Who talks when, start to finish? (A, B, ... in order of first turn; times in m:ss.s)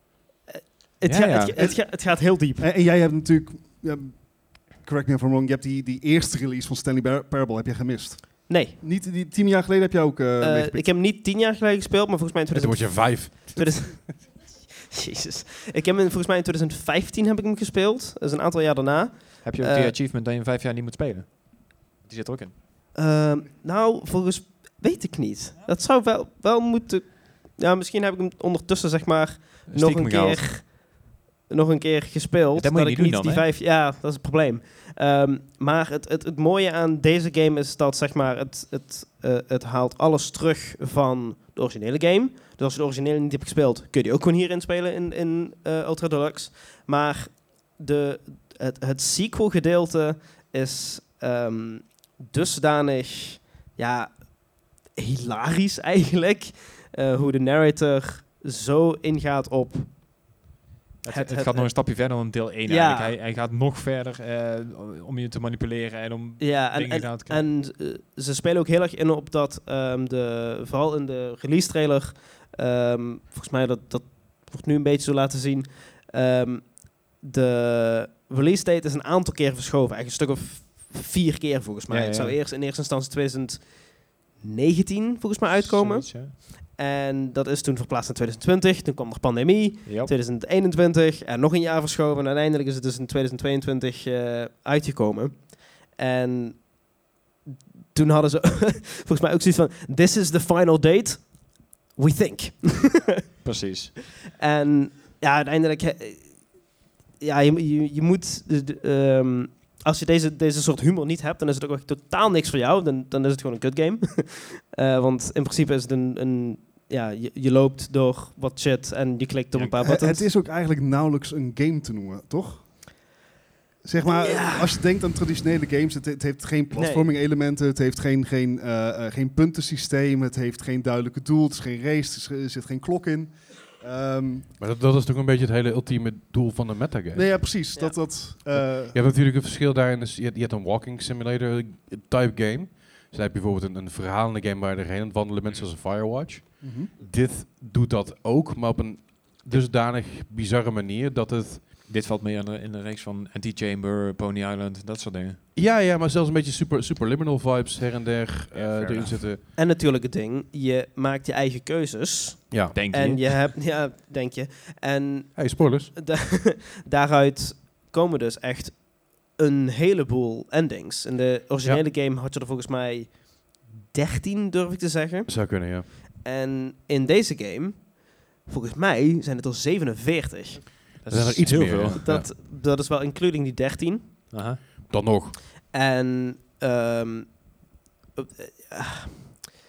0:00.5-0:02.7 A
0:01.0-0:01.6 B
0:01.6-0:10.9 C
0:08.5-0:08.8 A
0:10.4-0:20.0 A
0:12.5-0:13.9 D
0:19.4-0:22.5 B
0:22.9-1:00.3 A
0:29.7-0:30.5 B
0:32.5-0:33.4 B
1:01.0-1:07.4 B
1:01.0-1:01.9 A
1:02.6-1:03.2 A
1:06.4-1:36.9 A
1:21.9-1:22.4 B
1:25.6-1:26.4 B
1:29.8-1:30.1 B
1:37.9-1:43.2 A
1:43.4-1:44.0 B
1:44.3-2:00.3 A
1:59.6-2:02.9 C
2:03.8-2:14.5 C
2:04.0-2:04.8 A
2:06.7-2:07.1 A
2:14.6-2:17.5 D
2:17.1-2:19.0 C
2:17.8-2:18.0 A
2:18.5-2:31.6 D
2:26.6-2:26.9 C
2:31.8-2:35.4 B
2:35.5-2:39.4 D
2:38.5-2:39.2 B
2:39.5-3:00.8 A
2:42.5-2:42.8 D
2:42.7-2:43.5 B
2:45.4-2:45.9 D
2:55.3-2:55.9 D
3:01.0-3:02.0 B
3:01.1-3:02.3 D
3:02.0-3:04.1 A
3:04.3-3:04.6 B
3:04.9-3:05.4 D
3:05.7-3:07.6 A
3:08.2-3:09.4 A